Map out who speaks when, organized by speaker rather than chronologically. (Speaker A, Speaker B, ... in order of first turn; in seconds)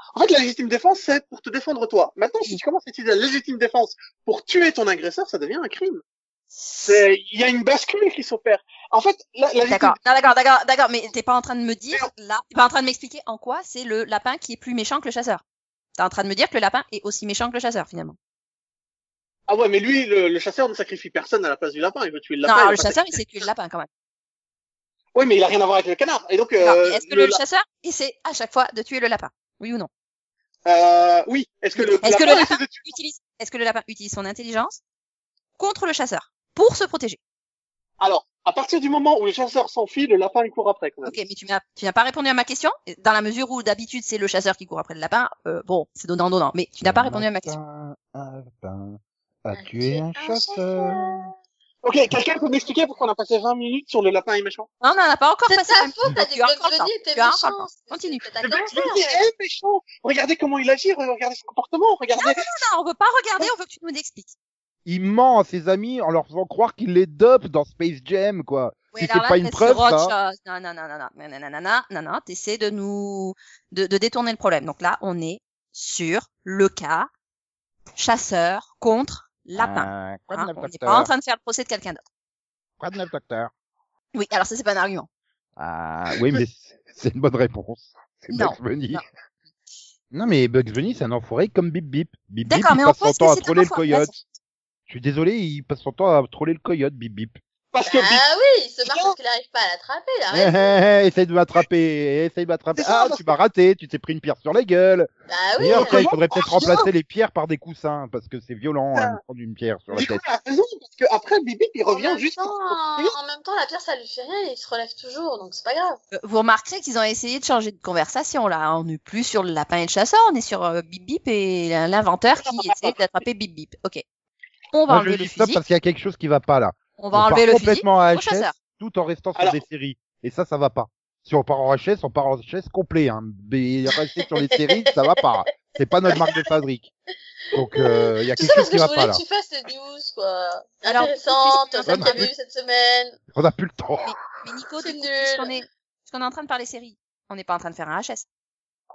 Speaker A: 0.1-6.0, 6.9-10.0, 19.5-23.2, 25.1-27.4, 30.6-32.9, 38.0-41.1, 51.8-54.7, 58.4-62.6, 97.7-98.2, 98.8-99.2, 102.8-103.3, 105.7-106.9, 109.9-113.1, 122.4-123.0
Speaker B: 9.7-15.4, 15.9-18.2, 22.4-23.9, 26.6-29.9, 31.8-34.8, 35.6-37.2, 41.0-47.6, 54.8-58.2, 62.2-64.3, 68.9-77.1, 78.0-82.0, 84.1-85.1, 88.3-89.0, 92.5-94.3, 116.1-124.0, 124.7-125.6, 127.0-128.5, 140.9-142.3, 144.0-148.2
Speaker C: 46.8-51.3, 64.9-70.1, 79.6-81.1, 82.8-83.5, 85.6-89.0, 90.1-94.1, 94.9-97.4, 100.3-110.2, 124.9-136.9, 137.5-139.2, 141.9-142.3, 143.3-144.1
Speaker D: 49.5-51.3, 55.5-59.2, 97.9-100.8, 105.3-106.1, 111.9-116.0, 137.6-143.2, 144.8-145.5